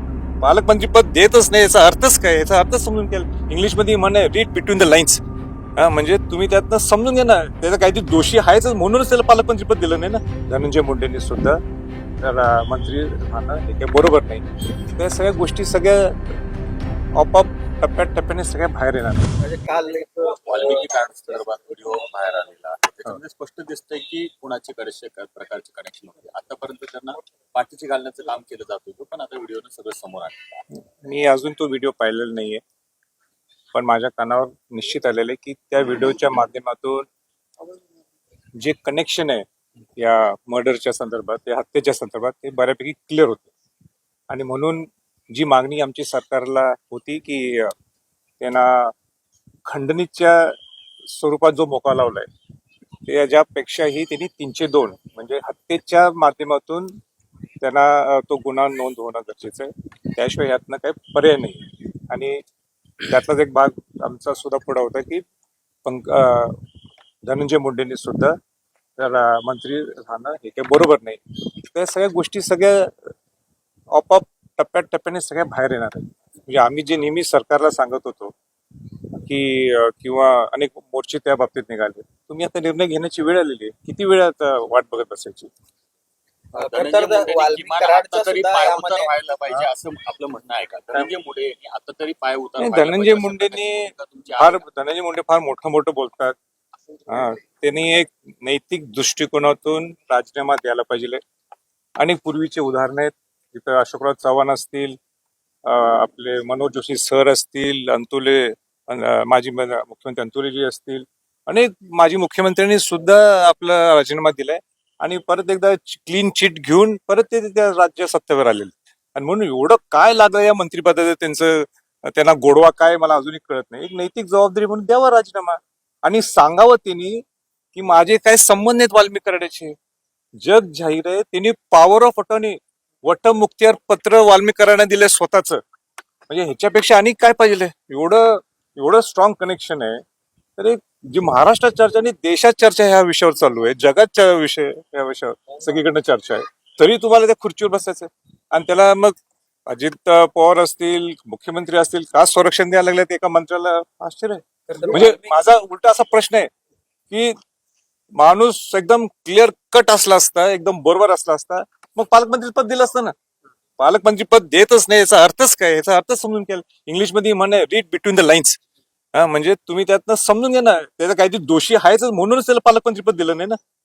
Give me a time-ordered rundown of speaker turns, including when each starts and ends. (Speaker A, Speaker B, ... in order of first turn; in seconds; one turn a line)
Speaker A: 0.4-5.2
Speaker A: 5.8-11.6
Speaker A: 12.2-16.1
Speaker A: 17.2-19.3
Speaker B: 19.4-21.4
Speaker C: 20.5-30.6
Speaker A: 30.7-32.6
Speaker A: 33.7-37.1
Speaker A: 38.6-39.5
Speaker A: 40.0-43.5
Speaker A: 44.3-47.7
Speaker A: 48.4-48.9
Speaker A: 49.7-52.3
Speaker A: 53.1-57.0
Speaker A: 57.6-62.4
Speaker A: 63.1-65.2
Speaker A: 65.8-66.6
Speaker A: 67.3-68.4
Speaker A: 69.0-73.1
Speaker A: 73.9-78.3
Speaker A: 79.1-85.5
Speaker B: 86.5-89.7
Speaker C: 86.6-94.6
Speaker A: 92.6-96.4
Speaker A: 97.1-101.2
Speaker A: 102.0-105.0
Speaker A: 105.7-127.2
Speaker A: 127.7-129.8
Speaker A: 130.4-135.6
Speaker A: 136.3-140.0
Speaker A: 140.6-149.2
Speaker A: 149.7-156.5
Speaker B: 154.7-155.3
Speaker A: 158.2-163.1
Speaker A: 163.8-168.6
Speaker A: 169.2-173.6